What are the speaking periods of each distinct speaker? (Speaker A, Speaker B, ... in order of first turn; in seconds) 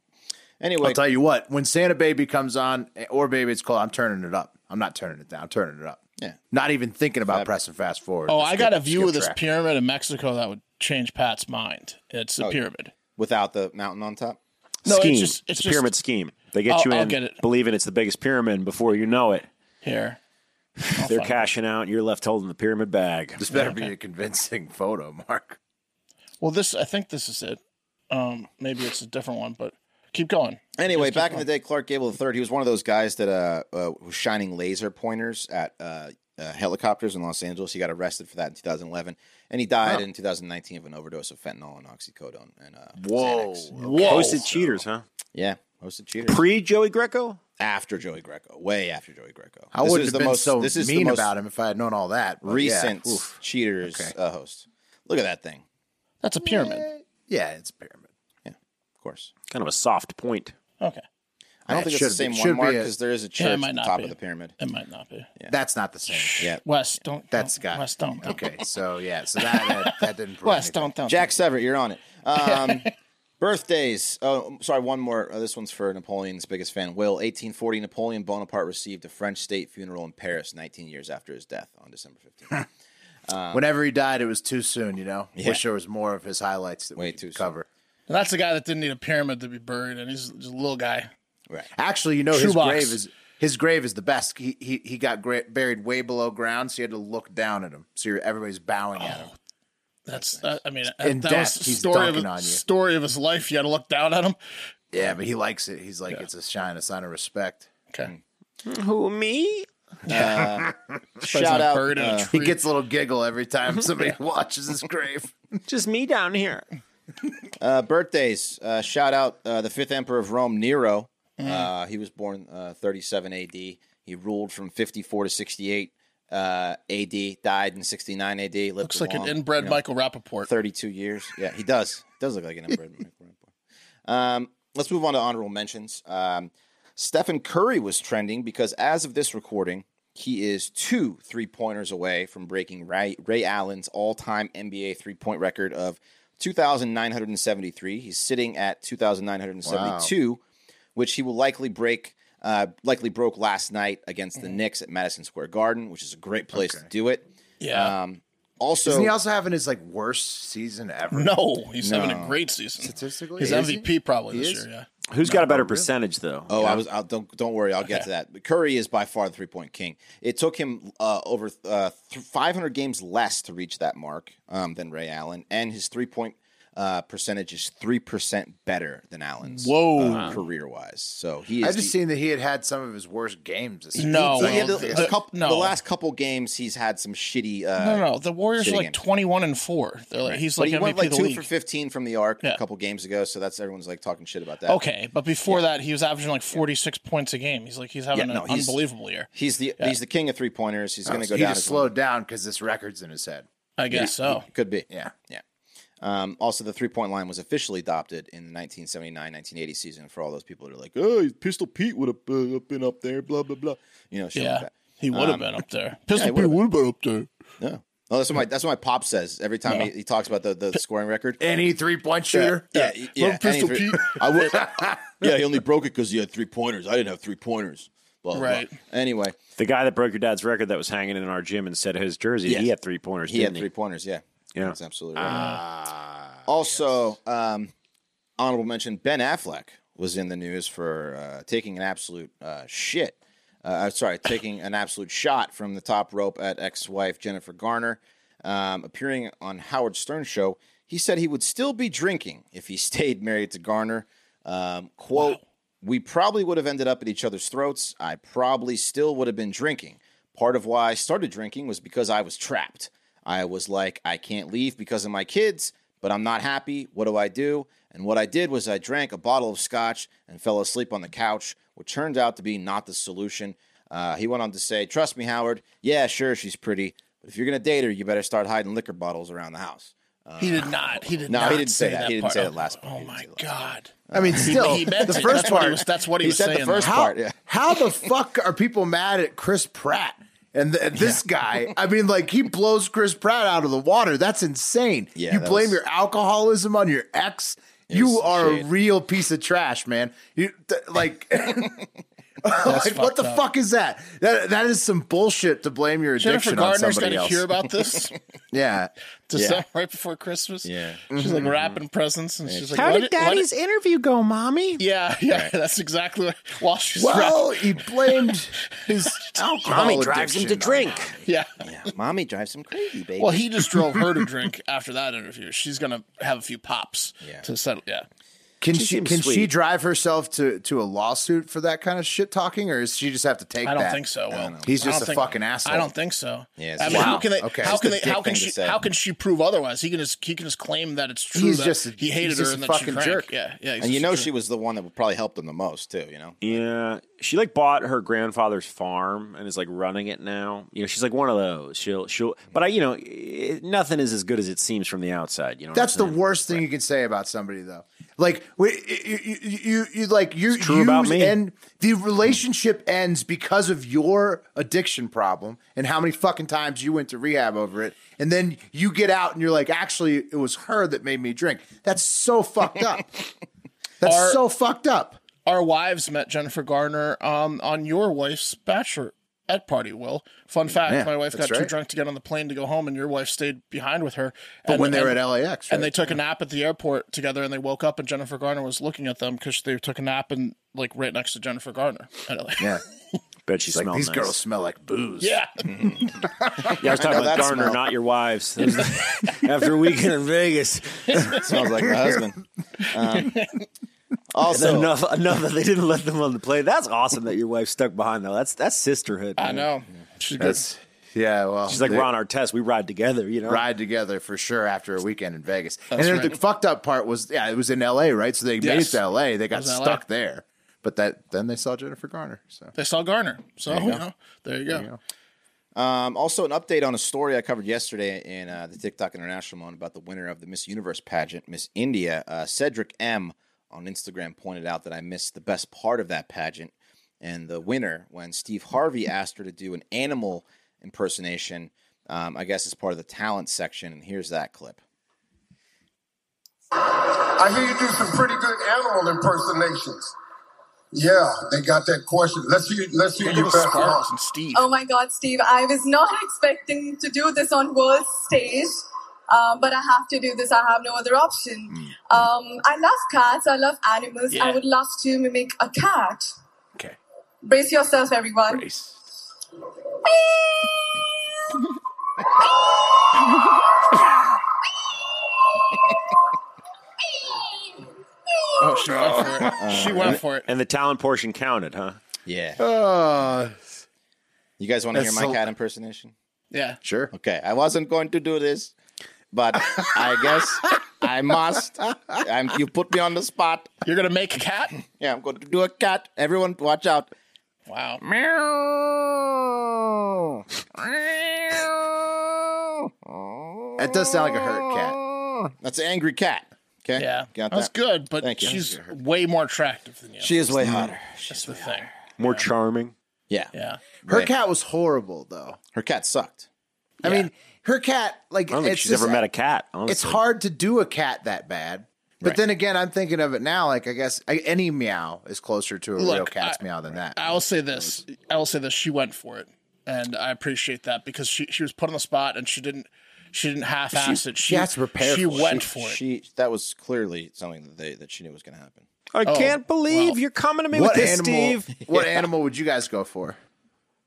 Speaker A: 0.6-1.0, 13.1-14.4, 30.8-43.7, 45.3-46.4, 47.6-51.3, 52.4-55.6, 58.4-59.3, 61.6-64.5, 71.1-82.7, 83.3-83.6, 87.0-87.5, 100.1-100.5, 110.1-112.3, 117.6-129.8, 130.4-133.5, 134.1-150.4, 150.9-159.1, 161.8-162.4, 166.5-181.9, 184.0-189.0, 190.2-194.8, 198.1-198.8, 199.3-201.9, 203.9-205.4, 206.0-215.5, 216.1-216.6, 217.6-221.4, 222.4-229.4, 233.2-235.5, 236.4-237.7, 238.4-283.5, 284.1-287.4, 295.1-295.8, 297.9-298.7, 309.3-309.6, 310.6-311.0, 312.5-313.0, 321.6-323.7, 334.3-335.0, 336.6-338.8, 343.8-346.6, 395.7-397.8, 401.3-403.6, 404.3-404.9, 423.7-424.0, 425.7-444.8, 479.4-480.2, 482.2-482.6, 484.6-486.1, 487.1-488.7, 489.3-493.7, 494.9-497.1, 498.0-508.6, 510.2-511.9, 515.7-516.5, 535.4-538.9
Speaker B: 0.8-9.4, 23.4-25.6, 43.0-44.8, 49.7-54.1, 56.4-58.1, 61.7-62.9, 65.5-66.4, 67.3-70.9, 83.5-87.7, 91.8-99.3, 100.8-102.6, 104.9-107.7, 112.3-115.5, 149.6-150.1, 156.5-156.9, 158.8-161.4, 162.8-164.7, 165.2-165.9, 180.1-180.3, 181.6-185.1, 201.1-203.4, 204.9-205.1, 221.4-222.7, 224.4-225.3, 235.2-236.9, 284.1-285.9, 286.8-301.8, 302.4-307.5, 308.5-308.9, 311.1-311.5, 316.9-321.1, 328.6-334.0, 334.6-335.9, 336.8-337.8, 341.3-343.3, 355.7-373.1, 374.0-375.2, 380.9-381.7, 384.7-386.1, 393.7-396.7, 410.4-412.1, 413.4-422.7, 424.7-425.0, 468.5-469.0, 482.6-483.6, 484.9-485.4, 486.8-487.1, 503.8-505.0, 508.4-508.9, 514.1-515.6, 517.0-519.2, 519.9-527.9, 533.9-535.7, 540.7-543.4
Speaker C: 8.3-12.9, 14.8-15.9, 16.7-17.4, 19.8-20.2, 20.9-21.5, 23.5-23.9, 26.4-27.6, 28.1-31.4, 43.8-44.4, 56.2-56.9, 63.4-65.3, 66.1-68.3, 69.4-71.2, 72.4-72.9, 88.1-91.1, 92.3-93.0, 99.0-99.3, 100.1-104.4, 111.2-112.6, 121.4-121.7, 128.8-130.5, 157.6-157.9, 161.1-164.9, 179.4-180.4, 184.0-185.7, 187.8-191.4, 194.7-199.9, 203.8-204.5, 214.3-217.3, 222.4-224.6, 228.3-228.7, 235.2-235.6, 280.4-286.9, 302.6-303.4, 306.2-308.1, 309.3-313.5, 314.8-317.9, 321.2-321.5, 323.2-328.1, 333.6-344.3, 374.0-374.4, 375.4-392.8, 395.2-395.5, 403.1-403.6, 409.4-410.6, 415.9-416.4, 418.6-420.0, 422.7-424.9, 453.2-454.7, 464.3-464.6, 478.6-480.5, 486.5-486.8, 493.8-494.8, 497.7-498.0, 507.0-512.5, 513.5-513.8, 526.0-526.6, 527.1-536.0, 539.2-540.2
Speaker D: 14.8-19.5, 20.8-23.4, 44.0-45.0, 46.3-47.4, 59.5-60.5, 108.7-109.7, 115.7-116.6, 165.1-166.8, 229.6-233.7, 312.7-314.8, 319.4-321.2, 328.7-329.5, 346.4-356.6, 360.6-361.4, 393.4-394.4, 396.7-401.4, 404.5-409.6, 411.7-413.6, 480.4-482.0, 512.2-512.9, 518.5-520.2, 539.1-541.7
Speaker E: 446.8-450.1, 450.9-454.0
Speaker F: 454.5-466.3, 467.4-468.6, 470.2-470.6